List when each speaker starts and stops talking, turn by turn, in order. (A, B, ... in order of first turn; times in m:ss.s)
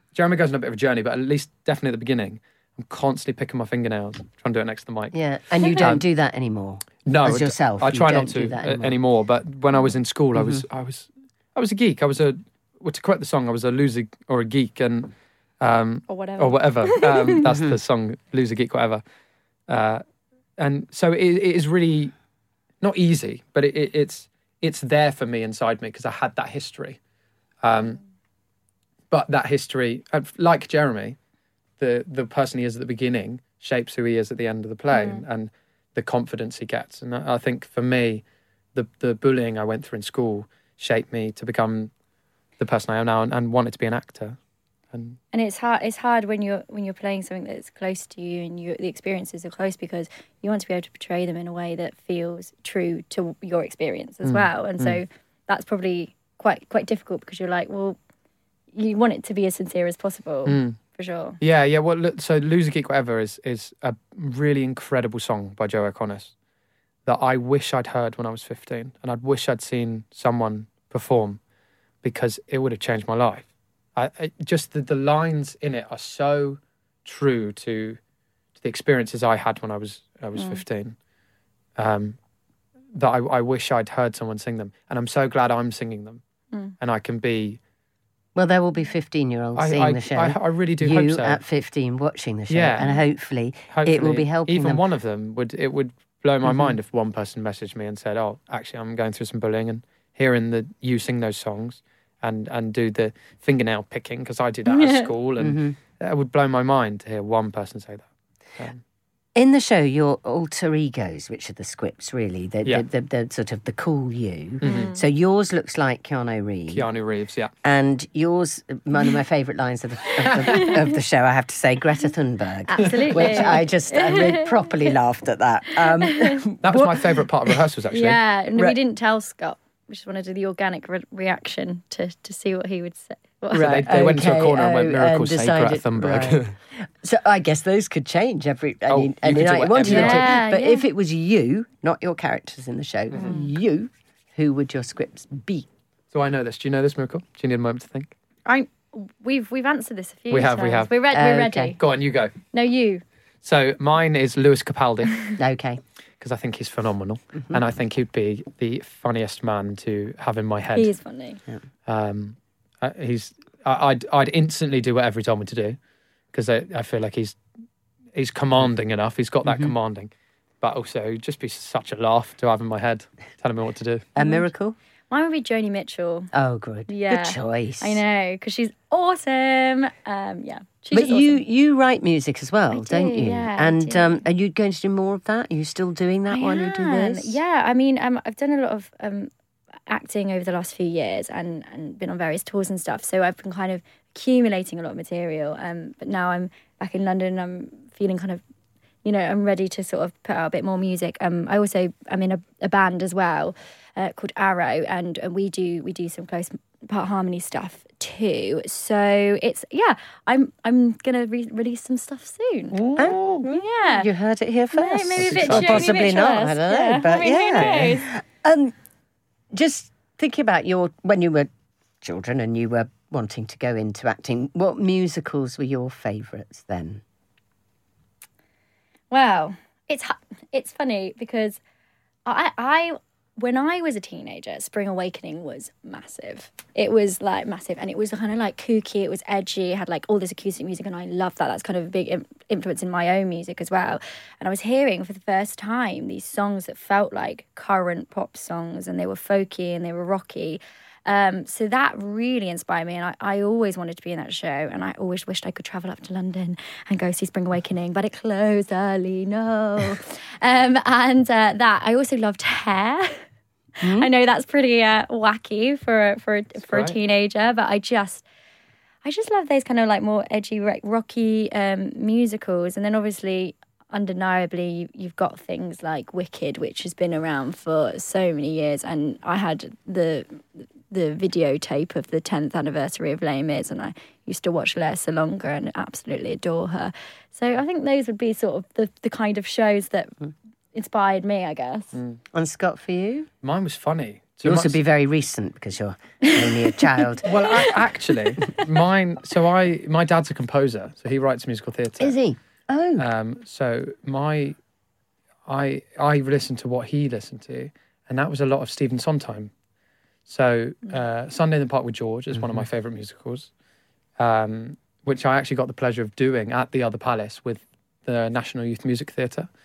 0:00.1-0:06.0 A
0:05.1-0:09.0 B
0:07.1-0:19.0 A
0:10.4-0:10.6 B
0:16.1-0:17.4 C
0:17.5-0:17.8 B
0:19.7-0:20.0 A
0:20.6-0:22.1 A
0:22.8-0:27.0 A
0:27.6-0:28.0 A
0:29.1-0:31.2 A
0:31.8-0:38.2 A
0:34.9-0:35.2 C
0:38.8-0:41.9 A
0:42.6-0:44.4 A
0:44.9-0:45.2 A
0:45.3-0:58.0 C
0:54.2-0:55.0 A
0:58.7-1:01.4 C
1:00.5-1:00.8 A
1:01.4-1:06.3 A
1:07.1-1:11.4 A
1:12.0-1:18.0 A
1:18.6-1:21.0 A
1:20.4-1:20.6 C
1:21.8-1:22.2 A
1:22.9-1:26.2 A
1:26.8-1:27.6 A
1:28.4-1:34.8 B
1:29.6-1:31.4 A
1:32.5-1:32.9 A
1:33.7-1:48.8 A
1:36.4-1:36.8 B
1:44.7-1:45.1 C
1:45.4-1:45.8 B
1:49.4-1:56.8 B
1:54.6-1:55.0 A
1:54.6-1:55.0 C
1:56.7-1:57.5 A
1:57.6-2:07.6 B
2:00.3-2:00.7 A
2:02.7-2:04.9 C
2:02.9-2:03.6 A
2:06.0-2:06.4 C
2:06.6-2:08.2 A
2:07.9-2:13.8 C
2:13.5-2:16.5 A
2:13.5-2:25.7 B
2:18.9-2:20.4 A
2:19.8-2:20.8 C
2:23.1-2:23.5 C
2:26.1-2:28.1 A
2:28.4-2:31.8 C
2:30.3-2:31.0 A
2:31.1-2:31.8 B
2:31.8-2:32.3 A
2:32.5-2:33.0 C
2:33.4-2:35.3 A
2:35.4-2:35.8 B
2:36.2-2:40.9 A
2:40.8-2:41.4 C
2:41.9-2:45.8 A
2:46.3-2:47.4 A
2:48.1-2:54.0 A
2:49.4-2:49.8 B
2:54.2-2:54.8 B
2:54.2-2:54.5 C
2:55.1-2:56.3 C
2:56.3-2:58.0 B
2:56.9-3:01.4 C
3:00.9-3:07.4 B
3:02.7-3:04.2 C
3:06.3-3:09.3 C
3:09.9-3:18.4 C
3:19.0-3:32.8 C
3:32.7-3:33.4 A
3:33.0-3:38.8 B
3:33.4-3:34.1 C
3:34.7-3:38.1 C
3:35.2-3:35.9 A
3:37.6-3:38.0 A
3:39.5-3:41.5 B
3:42.0-3:47.0 B
3:49.1-3:51.6 C
3:52.3-4:23.2 C
4:23.8-4:28.2 C
4:23.8-4:24.1 B
4:26.7-4:27.0 A
4:29.0-4:50.2 C
4:50.7-4:52.0 C
4:51.9-4:52.2 A
4:52.3-4:53.3 B
4:53.4-4:54.8 A
4:54.4-4:57.3 B
4:57.2-5:02.1 A
5:02.0-5:03.1 B
5:03.0-5:04.6 A
5:05.5-5:09.5 A
5:10.3-5:13.5 A
5:14.2-5:19.5 A